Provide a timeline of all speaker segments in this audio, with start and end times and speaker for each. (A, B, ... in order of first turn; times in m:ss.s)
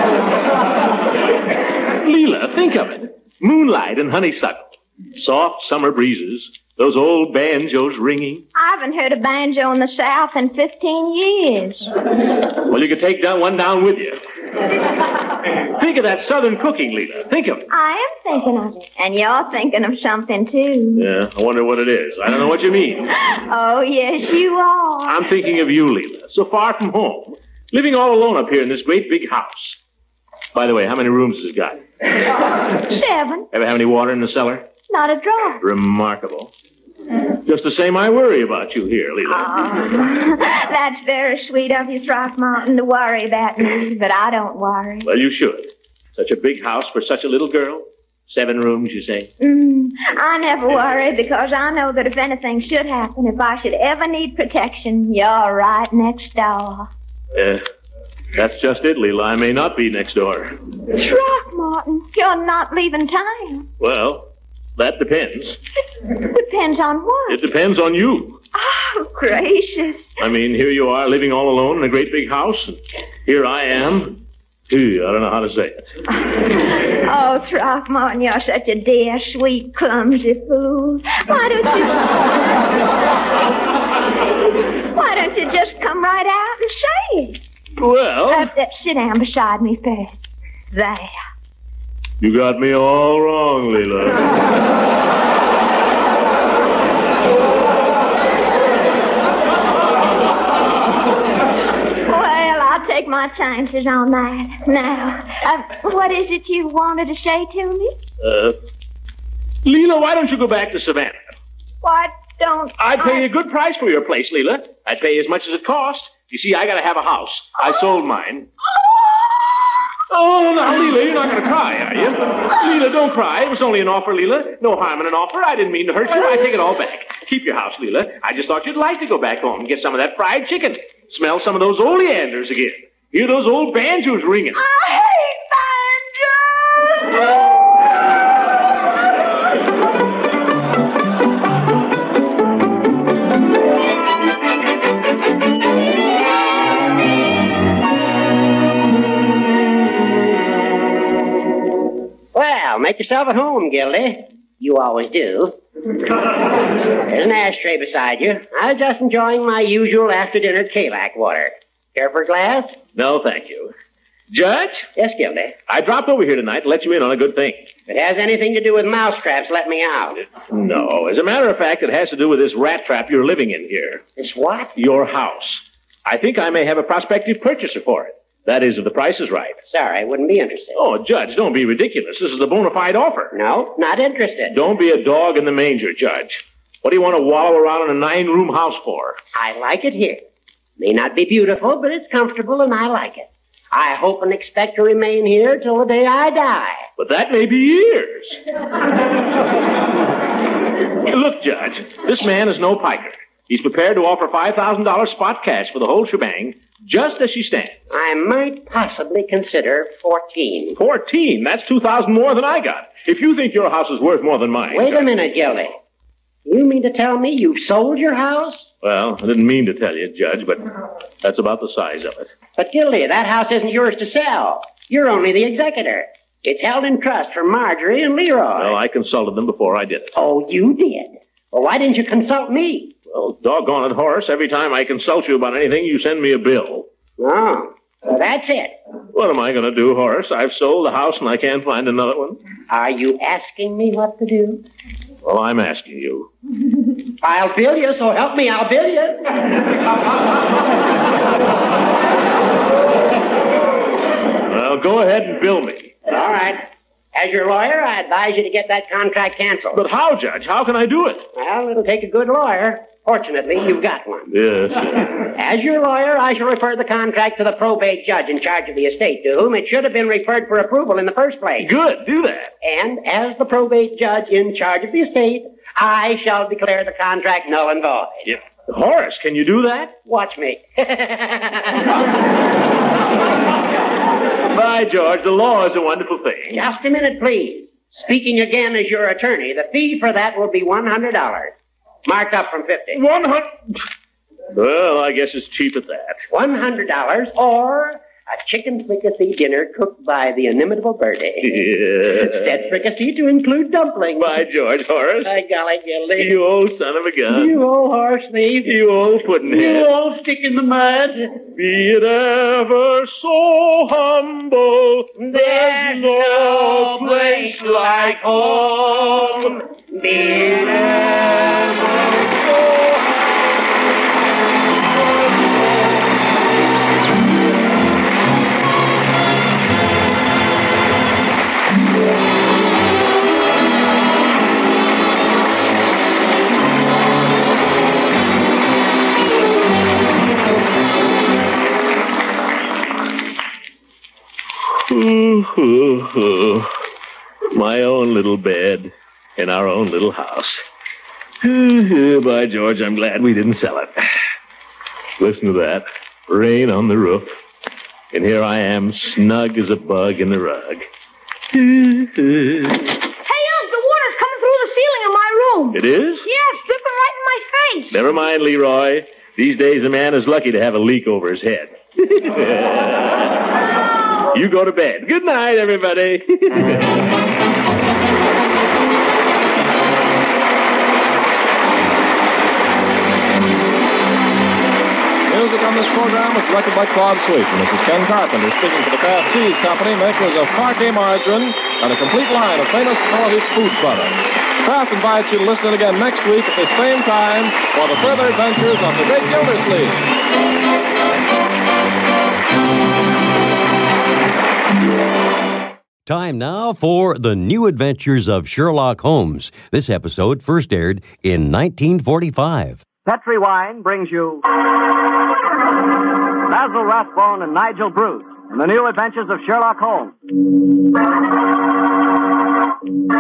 0:02.0-0:08.5 A
0:08.6-0:11.9 B
0:12.6-0:14.2 A
0:15.6-0:17.7 A
0:17.7-0:21.1 B
0:21.0-0:23.1 A
0:23.3-0:25.2 B
0:25.1-0:29.8 A
0:30.5-0:31.8 A
0:32.8-0:33.5 B
0:33.5-0:34.7 A
0:34.9-0:35.6 B
0:35.6-0:36.5 A
0:37.4-0:39.8 A
0:39.3-0:45.1 B
0:45.0-0:49.3 A
0:49.4-0:56.9 B
0:57.3-0:57.6 A
0:58.4-1:00.6 A
1:00.9-1:03.7 B
1:03.8-1:05.6 A
1:06.3-1:07.4 B
1:07.3-1:08.4 A
1:08.6-1:10.0 B
1:10.2-1:15.9 A
1:16.2-1:22.3 B
1:24.9-1:27.4 B
1:27.8-1:28.5 A
1:28.3-1:30.1 B
1:30.7-1:31.2 B
1:32.2-1:34.4 A
1:42.1-1:48.0 B
1:48.2-1:48.6 A
1:49.6-1:51.3 A
1:51.8-1:53.2 B
1:52.8-1:58.5 A
2:00.1-2:14.6 A
2:14.7-2:16.1 B
2:32.3-2:35.6 C
2:36.2-2:42.8 C
2:42.9-2:43.7 A
2:44.3-2:44.9 A
2:45.0-2:45.6 C
2:45.7-2:47.7 A
2:47.9-2:50.3 C
2:50.5-2:54.0 A
2:54.2-2:54.7 C
2:54.8-2:59.6 A
2:59.7-3:00.8 C
3:00.8-3:03.4 A
3:03.3-3:04.6 C
3:04.5-3:09.2 A
3:09.4-3:10.2 C
3:10.8-3:16.9 C
3:17.0-3:18.4 A
3:21.1-3:27.8 A
3:27.9-3:30.8 C
3:30.8-3:35.1 A
3:34.7-3:35.7 C
3:36.4-3:38.7 C
3:38.8-3:42.3 A
3:42.6-3:48.8 C
3:48.6-3:50.1 A
3:50.2-3:52.9 C
3:53.1-3:56.9 A
3:57.2-3:58.8 C
3:59.1-4:02.4 A
4:02.7-4:04.6 C
4:05.2-4:06.3 A
4:07.2-4:09.3 C
4:14.5-4:16.0 A
4:16.1-4:19.8 C
4:19.7-4:21.3 A
4:21.4-4:24.3 C
4:24.3-4:25.2 A
4:25.2-4:31.7 C
4:31.6-4:32.5 A
4:32.6-4:38.2 C
4:38.3-4:40.0 A
4:40.0-4:41.9 C
4:44.5-4:46.6 A
4:46.5-4:51.5 C
4:52.1-4:53.0 C
4:52.9-4:53.8 A
4:54.5-4:56.2 A
4:56.3-5:04.4 C
5:01.4-5:02.6 A
5:04.2-5:05.3 A
5:05.2-5:06.4 C
5:06.2-5:07.6 A
5:07.3-5:08.8 C
5:08.6-5:09.9 A
5:09.4-5:11.3 C
5:11.4-5:19.5 A
5:15.2-5:21.0 C
5:44.8-5:46.7 A
5:47.5-5:50.6 A
5:51.4-5:54.0 A
5:55.2-5:57.3 A
5:58.1-6:00.8 A
6:01.5-6:02.9 A
6:03.3-6:08.0 D
6:05.7-6:06.3 A
6:07.9-6:13.3 A
6:14.3-6:17.0 A
6:25.3-6:40.1 E
6:46.1-6:52.8 F
6:53.0-6:54.4 G
6:56.5-7:00.1 G